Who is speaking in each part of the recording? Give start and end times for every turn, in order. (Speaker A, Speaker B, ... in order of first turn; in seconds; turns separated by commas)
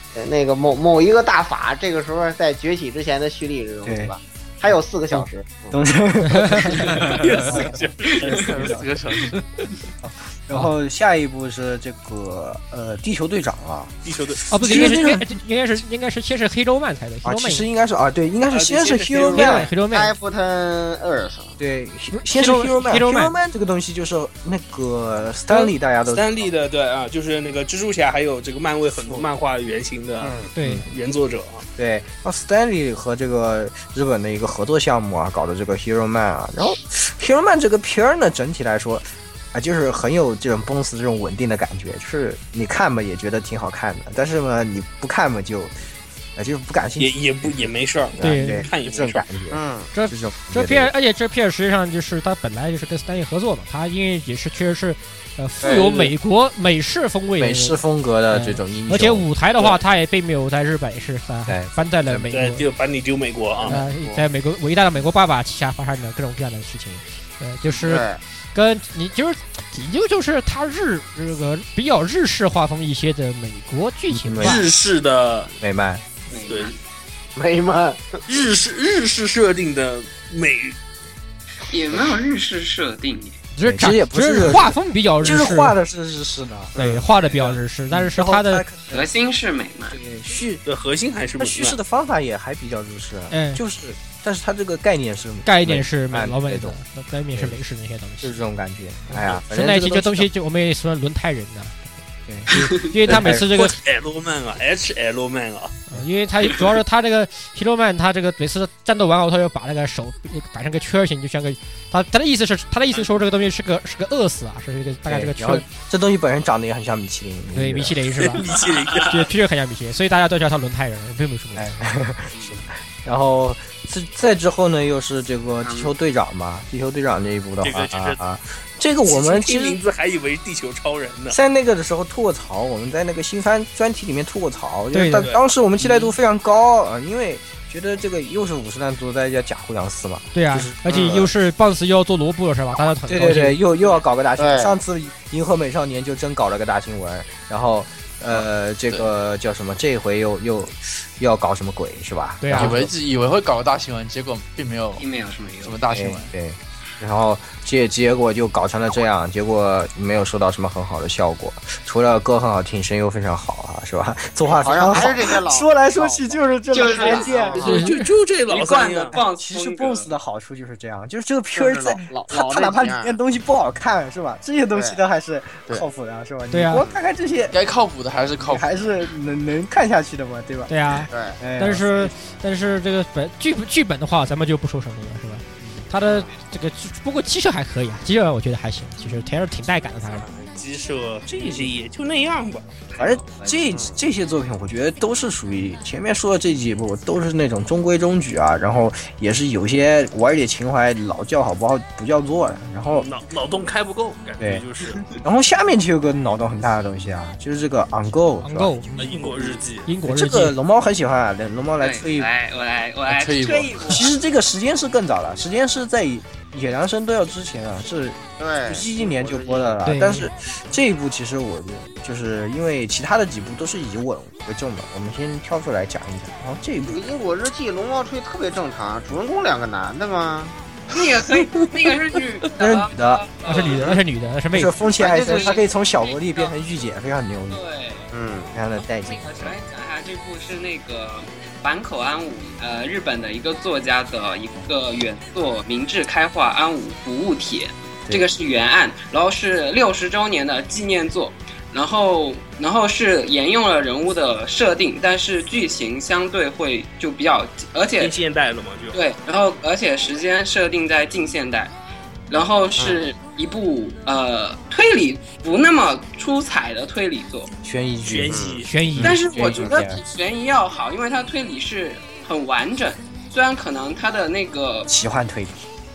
Speaker A: 0.1-5.8, Speaker B: 3.8-4.1, Speaker B: 5.1-7.8, Speaker C: 6.9-8.8, Speaker D: 8.2-9.4, Speaker B: 8.4-8.9, Speaker B: 10.0-14.0, Speaker C: 14.1-15.1, Speaker B: 14.5-15.3, Speaker E: 14.5-17.7, Speaker B: 17.2-19.7, Speaker C: 18.5-19.6, Speaker E: 19.3-20.1, Speaker A: 19.8-21.6, Speaker B: 21.6-26.5, Speaker E: 22.1-23.4, Speaker C: 25.5-30.4, Speaker A: 30.2-30.5, Speaker E: 30.6-30.9, Speaker B: 30.6-30.9, Speaker C: 30.9-31.6, Speaker B: 31.8-45.8, Speaker B: 46.4-50.9, Speaker C: 47.0-49.3, Speaker E: 48.2-48.7, Speaker A: 49.5-49.9, Speaker E: 49.9-62.7, Speaker B: 55.6-56.1, Speaker B: 57.4-59.3, Speaker B: 61.5-62.3, Speaker C: 62.3-63.8, Speaker A: 63.6-64.2, Speaker E: 63.7-74.7, Speaker A: 67.8-68.2, Speaker B: 74.1-74.7, Speaker C: 74.4-75.5, Speaker B: 75.6-76.0, Speaker F: 76.3-76.8, Speaker C: 76.5-76.7, Speaker A: 77.4-78.2, Speaker C: 78.3-80.8, Speaker F: 81.7-83.4, Speaker E: 83.5-85.8, Speaker B: 83.6-86.8, Speaker A: 86.8-87.0, Speaker E: 86.8-88.7, Speaker C: 87.3-87.6, Speaker B: 87.9-89.1, Speaker F: 88.9-90.0, Speaker B: 89.9-90.6, Speaker C: 90.7-91.8, Speaker B: 91.4-96.8, Speaker E: 93.3-93.6, Speaker E: 95.5-98.4, Speaker B: 98.2-100.3, Speaker E: 99.1-102.0, Speaker E: 102.5-103.8, Speaker F: 102.5-102.8, Speaker B: 103.1-103.5, Speaker C: 103.2-105.8, Speaker E: 105.9-115.7, Speaker B: 115.1-118.0, Speaker E: 117.5-118.5, Speaker C: 118.2-119.3, Speaker F: 118.5-119.1, Speaker E: 119.1-121.8, Speaker B: 121.6-129.8, Speaker F: 122.3-122.7, Speaker F: 125.6-125.9, Speaker C: 127.6-128.2, Speaker C: 129.1-131.4, Speaker B: 131.3-141.3, Speaker E: 134.9-135.3, Speaker C: 135.2-135.4, Speaker E: 140.3-143.6, Speaker B: 143.1-152.9, Speaker A: 144.4-144.8, Speaker E: 152.4-152.8, Speaker D: 152.5-155.1, Speaker F: 155.0-155.8, Speaker D: 155.6-156.3, Speaker B: 155.9-167.8, Speaker A: 164.5-167.9, Speaker F: 166.7-167.8, Speaker C: 167.5-169.2, Speaker E: 167.6-168.0, Speaker F: 168.5-170.1, Speaker B: 169.2-177.6, Speaker A: 171.6-173.2, Speaker A: 174.7-175.0, Speaker E: 176.5-176.8, Speaker A: 176.7-177.0, Speaker D: 177.5-178.8, Speaker B: 178.4-182.1, Speaker E: 180.7-190.3, Speaker A: 181.1-181.4, Speaker B: 185.6-185.8, Speaker A: 186.0-186.3, Speaker C: 190.4-192.7, Speaker B: 193.0-203.1, Speaker A: 193.7-194.0, Speaker C: 202.9-205.2, Speaker B: 204.4-208.8, Speaker E: 208.4-209.3, Speaker C: 209.0-209.9, Speaker E: 209.8-210.6, Speaker B: 210.0-212.3, Speaker F: 211.8-214.1, Speaker D: 213.1-214.1, Speaker B: 213.9-227.1, Speaker A: 218.4-219.8, Speaker E: 219.8-220.3, Speaker A: 226.9-230.6, Speaker F: 230.9-234.0, Speaker B: 232.6-233.3, Speaker E: 233.5-234.7, Speaker A: 233.6-234.0, Speaker B: 234.5-237.6, Speaker F: 235.0-236.5, Speaker A: 235.0-235.6, Speaker F: 237.5-238.1, Speaker A: 238.1-238.6, Speaker B: 238.5-239.6, Speaker F: 238.9-258.2, Speaker C: 258.0-259.0, Speaker F: 258.9-261.7, Speaker F: 262.3-267.5, Speaker B: 267.6-270.0, Speaker C: 268.0-269.1, Speaker A: 268.3-268.6, Speaker E: 268.6-269.2, Speaker F: 269.0-274.9, Speaker B: 274.9-275.6